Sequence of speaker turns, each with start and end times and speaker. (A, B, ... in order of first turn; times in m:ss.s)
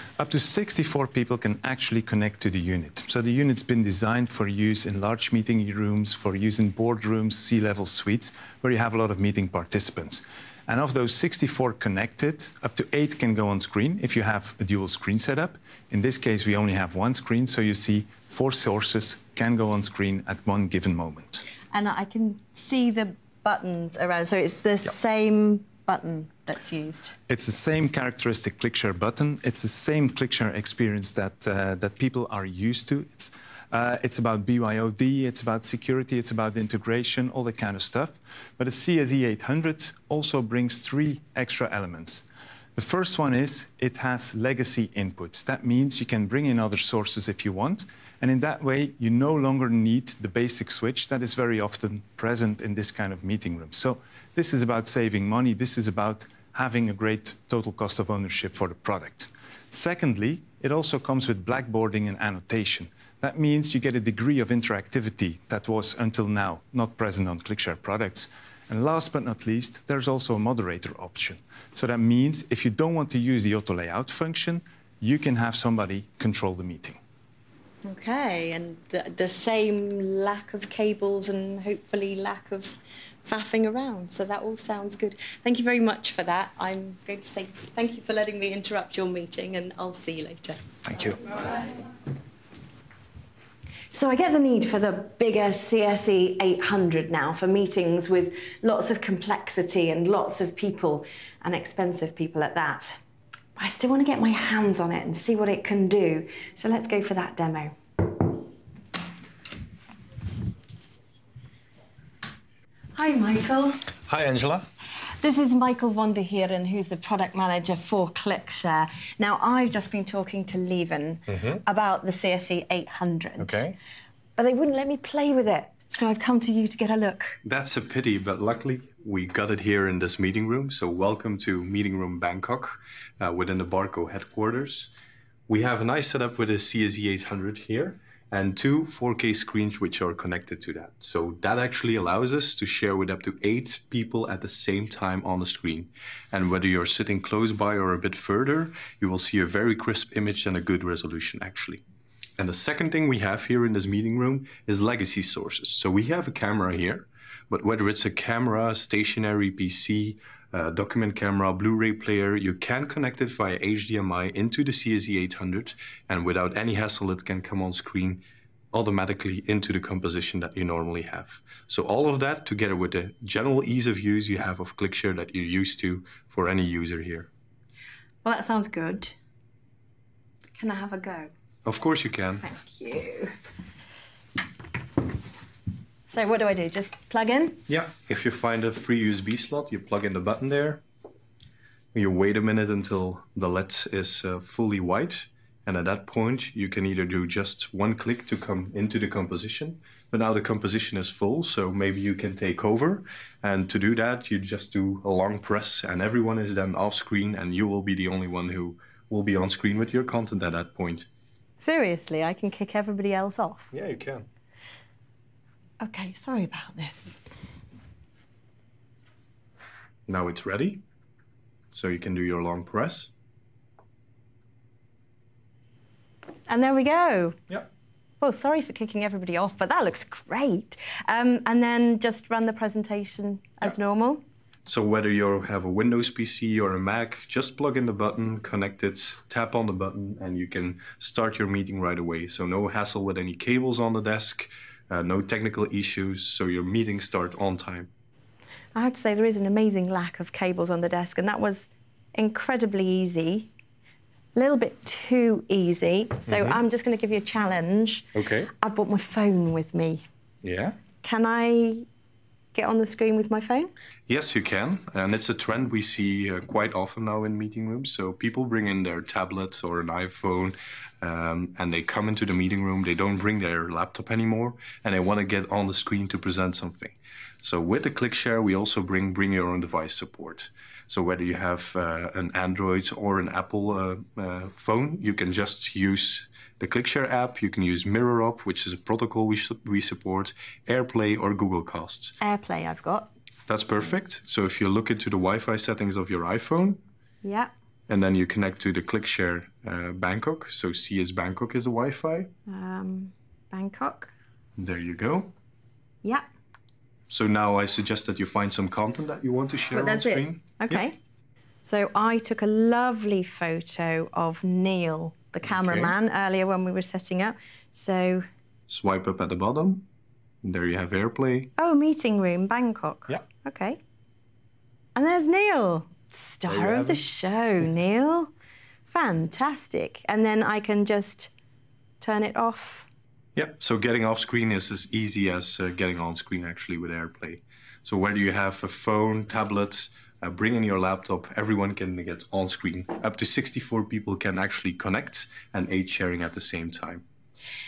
0:00.2-0:21.4 A
0:21.7-0:27.2 B
0:27.3-1:17.0 A
1:17.8-1:30.6 B
1:30.8-1:31.3 A
1:33.9-1:43.0 B
1:43.6-1:47.7 B
1:52.9-1:53.8 B
1:54.1-1:54.7 C
1:55.2-2:03.6 B
2:01.3-2:01.6 C
2:03.4-2:03.7 C
2:04.4-2:07.4 B
2:07.4-2:14.9 C
2:15.5-2:31.8 C
2:32.4-2:57.3 C
2:58.2-2:59.2 B
3:00.5-3:01.3 B
3:01.6-3:02.4 C
3:02.4-3:03.3 B
3:06.1-3:07.6 B
3:07.7-3:10.8 C
3:11.9-3:31.1 C
3:31.6-3:33.7 B
3:33.7-3:34.2 C
3:35.8-3:37.2 B
3:40.1-3:40.8 C
3:41.7-3:43.1 C
3:46.5-3:47.4 B
3:48.2-3:54.2 B
3:54.7-4:07.9 C
4:08.7-4:13.5 B
4:14.3-4:18.1 B
4:16.3-4:16.6 C
4:18.1-4:18.5 C
4:18.6-4:20.0 B
4:20.4-4:20.8 C
4:21.0-4:21.8 B
4:22.5-4:23.7 B
4:24.1-4:52.2 C
4:52.2-4:53.1 B
4:53.5-4:56.8 C
4:57.2-4:57.5 B
4:57.9-5:02.3 C
5:02.5-5:04.1 B
5:04.6-5:05.3 C
5:07.1-5:10.8 C
5:09.7-5:11.0 B
5:11.6-5:18.3 B
5:15.4-5:16.0 C
5:18.7-5:19.9 C
5:20.4-5:21.5 C
5:21.6-5:23.8 B
5:24.9-5:28.3 B
5:26.5-5:27.0 C
5:28.9-5:31.3 B
5:32.0-5:32.9 B
5:33.4-5:47.0 C